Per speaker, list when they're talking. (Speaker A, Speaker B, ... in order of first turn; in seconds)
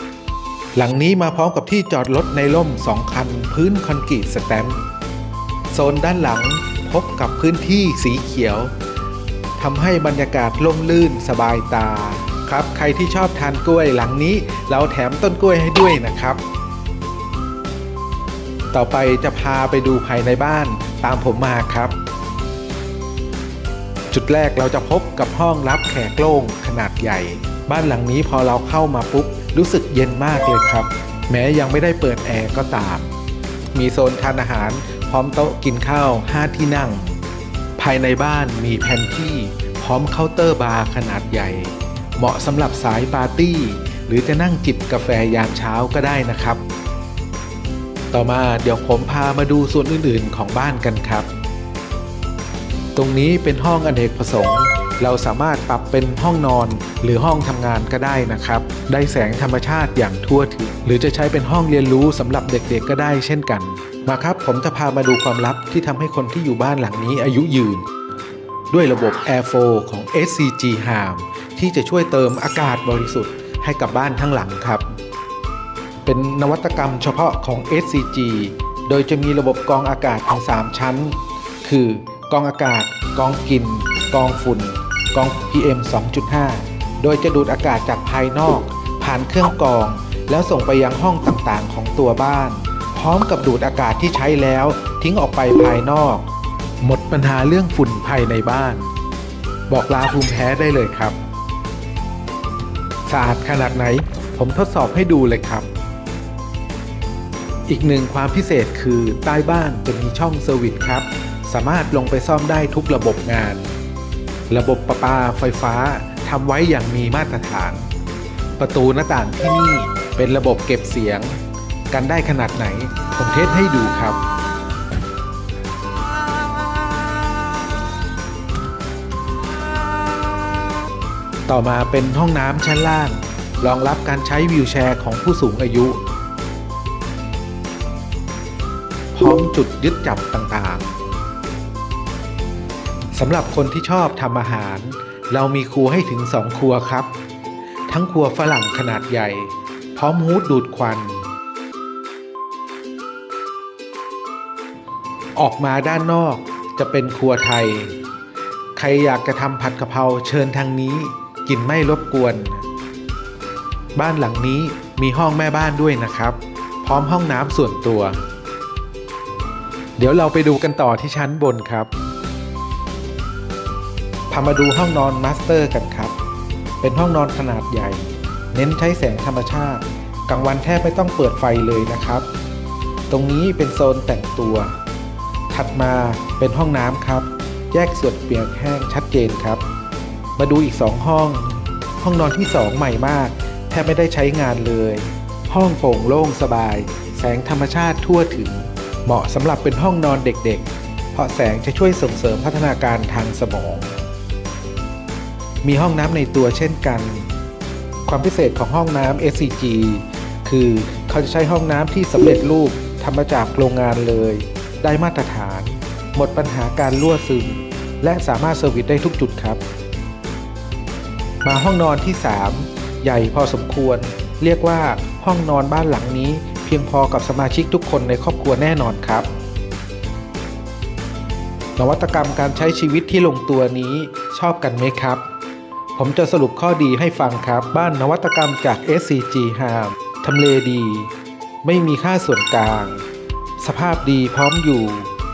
Speaker A: 0.8-4.8, 5.7-8.7, 9.6-16.4, 18.7-22.0, 24.1-33.1, 33.7-37.2, 37.8-46.6, 48.1-51.3, 53.0-67.9, 68.7-74.8, 76.0-96.2, 96.8-98.9, 99.7-101.2, 103.1-105.7, 107.7-113.7, 114.5-117.9, 118.6-121.4, 121.9-124.2, 131.5-136.0, 139.2-141.0, 143.1-147.1, 147.9-151.2, 155.4-158.0, 158.8-162.7, 163.9-168.2, 170.0-171.9, 174.3-176.1, 176.8-182.3, 183.1-184.7, 185.5-189.6, 190.4-203.9, 205.6-207.3, 208.1-219.6, 221.4-229.3, 231.8-235.2, 235.9-241.1, 241.6-243.0, 243.6-245.1